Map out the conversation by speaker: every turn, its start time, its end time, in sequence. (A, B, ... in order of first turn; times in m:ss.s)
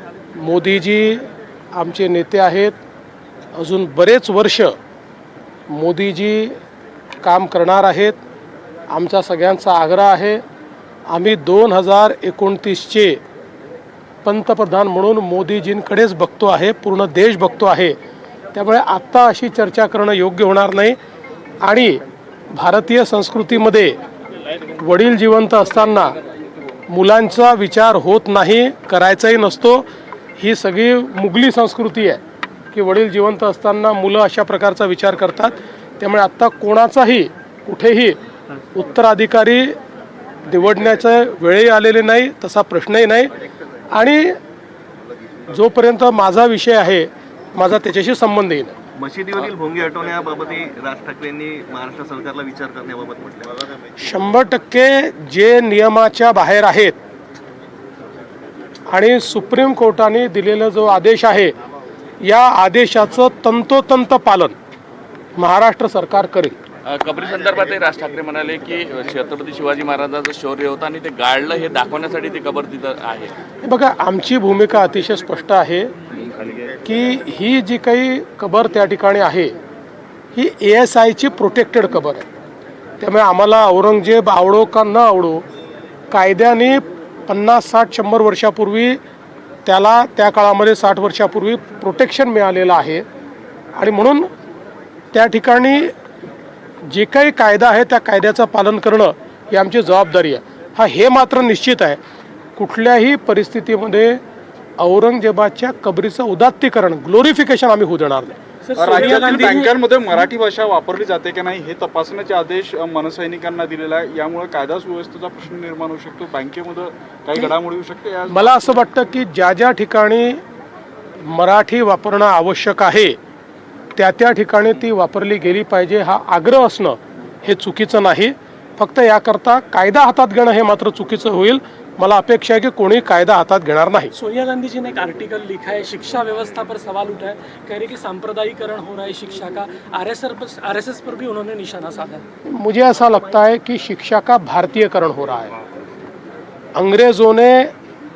0:00.4-0:02.8 A
0:03.5-0:04.7 A
0:05.7-0:06.6 A
0:07.2-0:08.2 A
0:08.9-0:10.4 A
0:11.1-0:13.2 A
0:14.2-0:18.0 A
0:18.5-0:21.0 A
0:21.6-0:22.0 A
0:22.5-0:24.0 A
0:24.8-0:26.1 A
0:26.9-0:29.8 A
0:30.4-0:32.2 A
0:32.7-0:38.2 A
0:38.7-0:39.8 A
0:40.5-0:43.3 A
0:43.9-0:44.4 A
0:45.5-0:48.7 A
0:49.0-0:53.8 B
0:54.0-0:57.0 A
0:58.9-1:01.5 A
1:02.2-1:04.5 A
1:05.4-1:06.6 A
1:06.8-1:13.3 C
1:13.6-1:15.9 A
1:16.8-1:19.6 A
1:20.3-1:22.2 A
1:23.0-1:25.4 A
1:26.1-1:29.0 A
1:29.6-1:33.0 A
1:33.8-1:34.3 A
1:35.1-1:35.9 A
1:36.9-1:42.0 A
1:42.6-1:44.2 A
1:44.8-1:48.4 A
1:48.7-1:49.7 D
1:48.8-1:58.8 E
1:58.3-2:00.4 A
2:01.3-2:03.2 A
2:04.0-2:14.1 A
2:14.2-2:22.2 D
2:22.5-2:25.5 A
2:26.8-2:27.7 A